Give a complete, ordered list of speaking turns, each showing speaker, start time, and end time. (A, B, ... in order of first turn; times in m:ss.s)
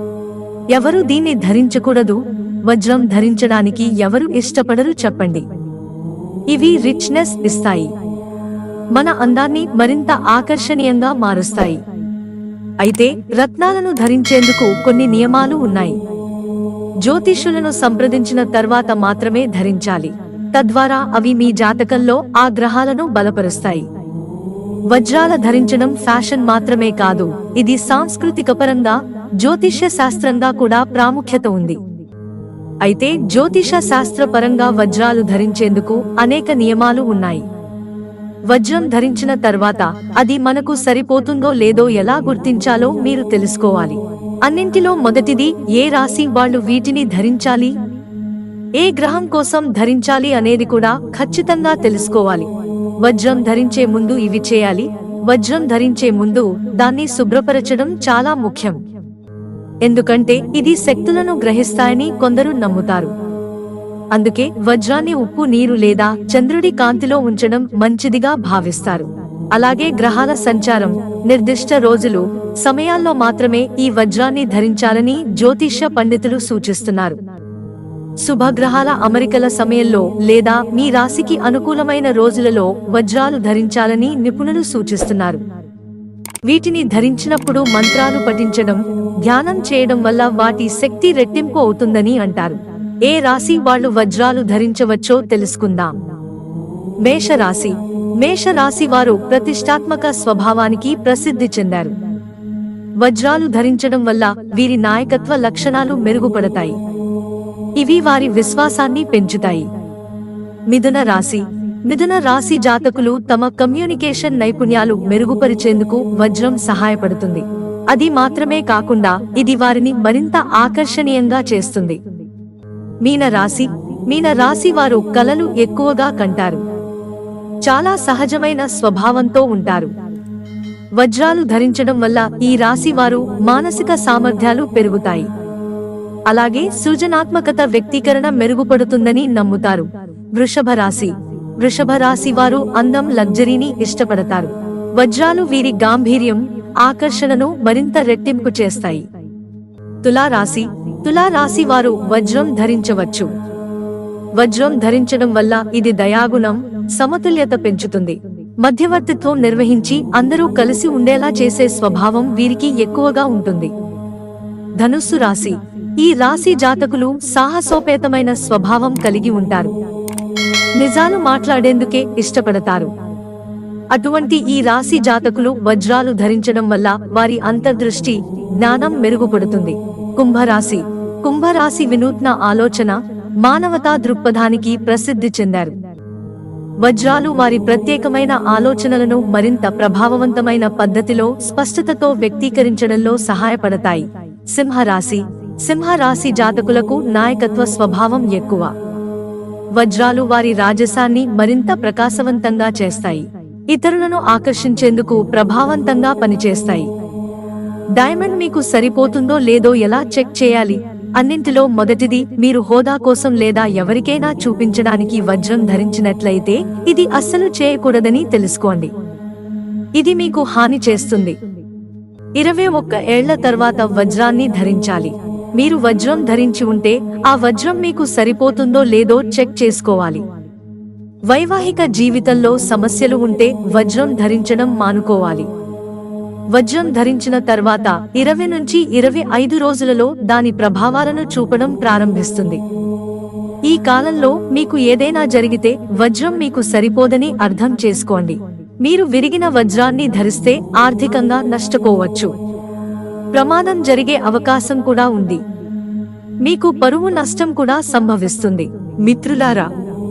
0:00.7-0:05.4 A
0:06.5-0:07.9 A
0:08.9-0:11.8 A
0:12.8-0:16.0 A
0:17.0-0:23.9 A
0:24.9-0:31.8 A
0:32.8-0:37.4 A
0:38.5-0:47.8 A
0:48.8-0:52.5 A
0:53.0-0:58.8 A
0:59.8-1:03.1 A
1:04.1-1:17.2 A
1:18.2-1:25.4 A
1:26.4-1:35.9 A
1:37.0-1:42.0 A
1:43.0-1:46.8 A
1:47.8-1:49.7 A
1:50.7-2:02.0 A
2:03.0-2:06.6 A
2:07.6-2:09.9 A
2:11.0-2:15.3 A
2:16.3-2:29.0 A
2:30.0-2:33.3 A
2:34.4-2:43.7 A
2:44.8-2:49.7 A
2:50.8-2:52.9 A
2:53.9-3:05.8 A
3:06.8-3:18.7 A
3:19.7-3:26.9 A
3:28.0-3:38.9 A
3:40.0-3:41.4 A
3:42.4-3:50.2 A
3:51.3-3:55.5 A
3:56.5-4:02.6 A
4:03.7-4:12.3 A
4:13.3-4:15.4 A
4:16.4-4:19.7 A